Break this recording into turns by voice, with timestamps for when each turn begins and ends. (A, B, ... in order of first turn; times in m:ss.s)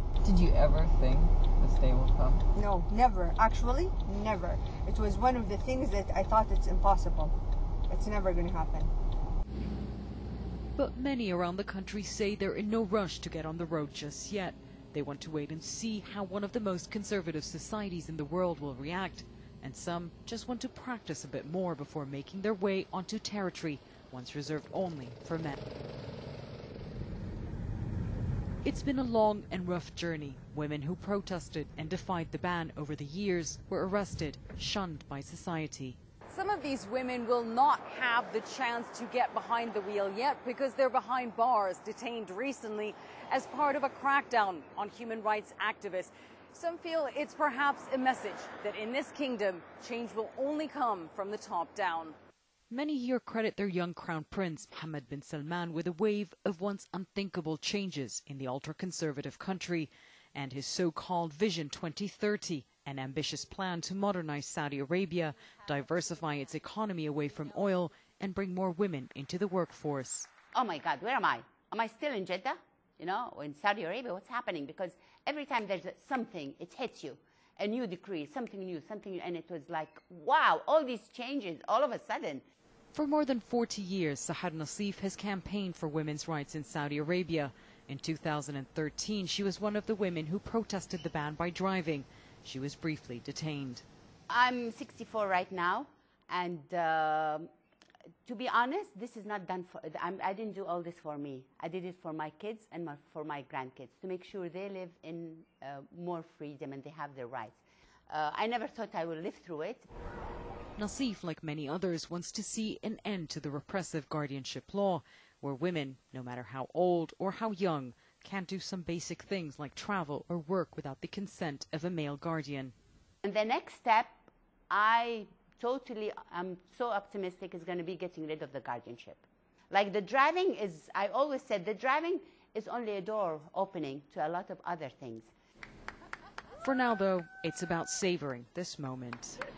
0:00.2-0:02.4 A
0:02.6-0:07.3 B
0:07.9-0:08.9 B
0:10.8-0:25.6 C
0:28.6-0:36.0 C
0:36.3-0:52.2 D
0:52.7-1:10.3 C
1:10.5-1:22.4 E
1:22.9-1:33.8 C
1:34.3-1:37.5 E
1:38.3-1:49.9 E
1:50.8-2:02.7 C
2:03.2-2:15.3 E
2:16.6-2:19.4 C